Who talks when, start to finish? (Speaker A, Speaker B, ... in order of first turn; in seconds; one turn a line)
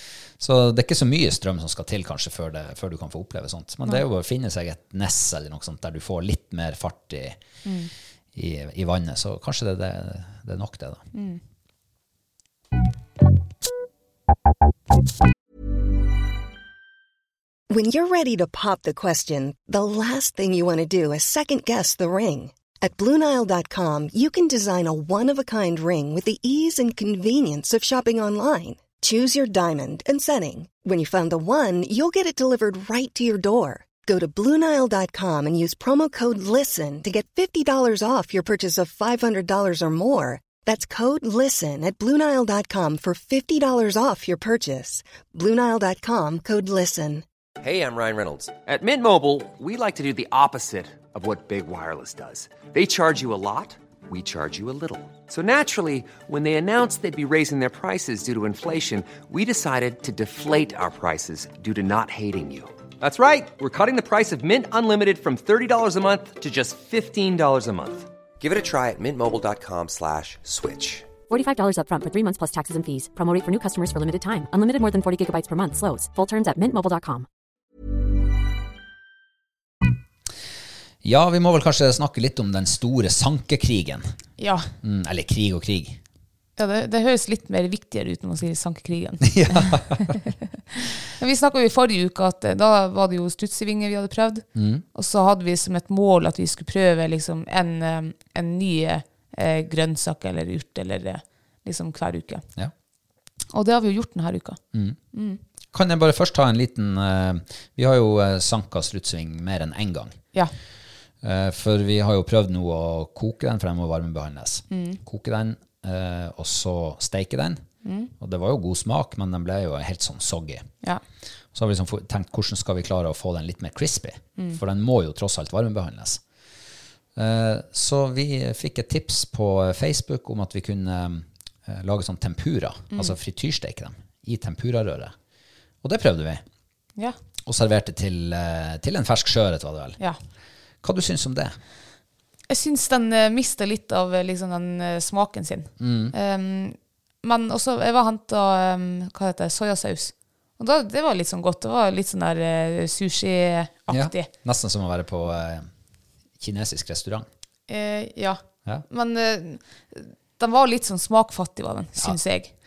Speaker A: 0.4-7.4
Speaker B: 7.7-7.9
Speaker A: 8.3-11.0
Speaker B: 11.1-11.4
Speaker C: 17.7-47.2
Speaker D: 47.6-71.1
Speaker E: 71.3-77.3
Speaker A: 81.0-84.1
Speaker B: 84.4-84.7
Speaker A: 84.8-86.0
Speaker B: 86.6-90.3
Speaker A: 89.2-90.2
Speaker B: 91.1-102.5
Speaker A: 94.5-94.8
Speaker B: 103.5-104.6
Speaker A: 104.7-105.0
Speaker B: 105.1-105.4
Speaker A: 105.7-110.2
Speaker A: 111.2-117.6
Speaker B: 114.7-115.0
Speaker B: 117.8-118.1
Speaker A: 118.2-120.7
Speaker A: 121.5-126.2
Speaker A: 127.2-135.2
Speaker A: 135.8-136.4
Speaker A: 137.4-140.0
Speaker A: 140.8-141.6
Speaker B: 142.5-154.3
Speaker A: 145.8-146.2
Speaker A: 153.9-155.7
Speaker A: 156.4-157.3
Speaker B: 157.7-162.5